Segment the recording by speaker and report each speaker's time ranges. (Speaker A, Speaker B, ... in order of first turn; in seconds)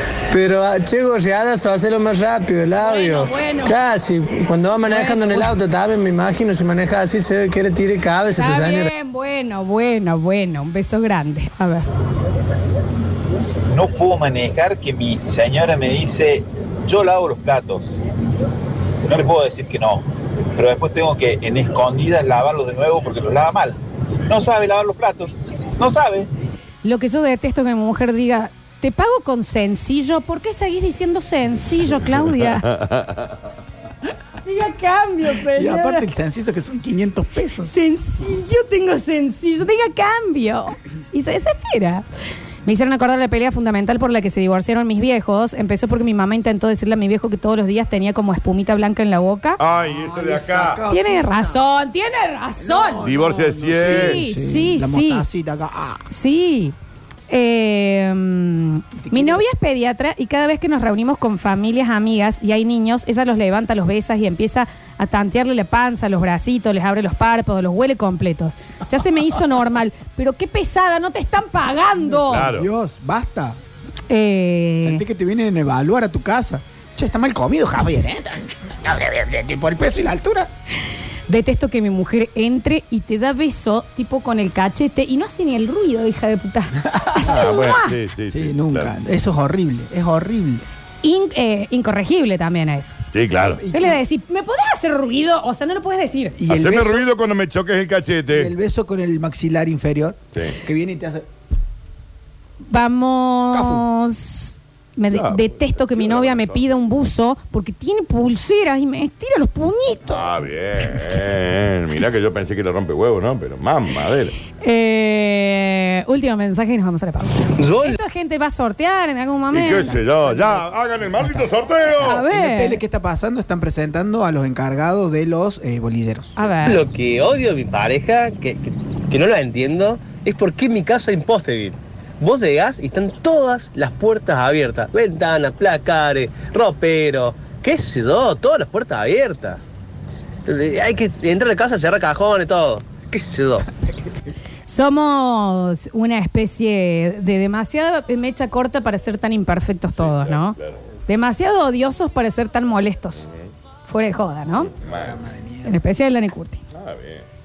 Speaker A: 0.3-8.9
Speaker B: 2.8-3.8, 4.8-5.5, 8.3-11.9, 26.8-32.7, 34.4-36.0, 37.6-42.0, 42.6-49.6, 50.9-53.0, 53.8-55.2, 56.1-56.7, 57.3-72.5, 74.1-75.0, 81.3-87.9, 91.0-93.0, 93.7-96.3, 102.7-110.2, 114.6-119.9, 122.0-122.8, 126.3-126.8, 144.7-150.6, 151.1-153.2, 153.9-154.7, 155.6-156.6
Speaker C: 13.7-18.0, 19.0-26.3
Speaker D: 32.7-33.3, 49.6-50.8, 53.0-54.2, 72.3-72.7, 87.2-89.0, 93.1-93.6, 96.5-98.5, 105.1-106.8, 110.1-114.4, 119.5-122.2, 150.0-150.8, 154.7-155.2, 156.7-157.2
Speaker E: 35.5-37.7, 49.7-51.6, 52.6-56.1, 59.0-59.4, 72.0-73.6, 74.8-80.5, 86.8-87.5, 88.3-90.6, 93.4-94.0, 96.3-97.0, 98.3-101.2, 103.5-103.8, 119.7-121.5, 122.0-126.4, 154.8-155.8
Speaker F: 117.6-118.0, 126.7-139.6, 140.4-143.7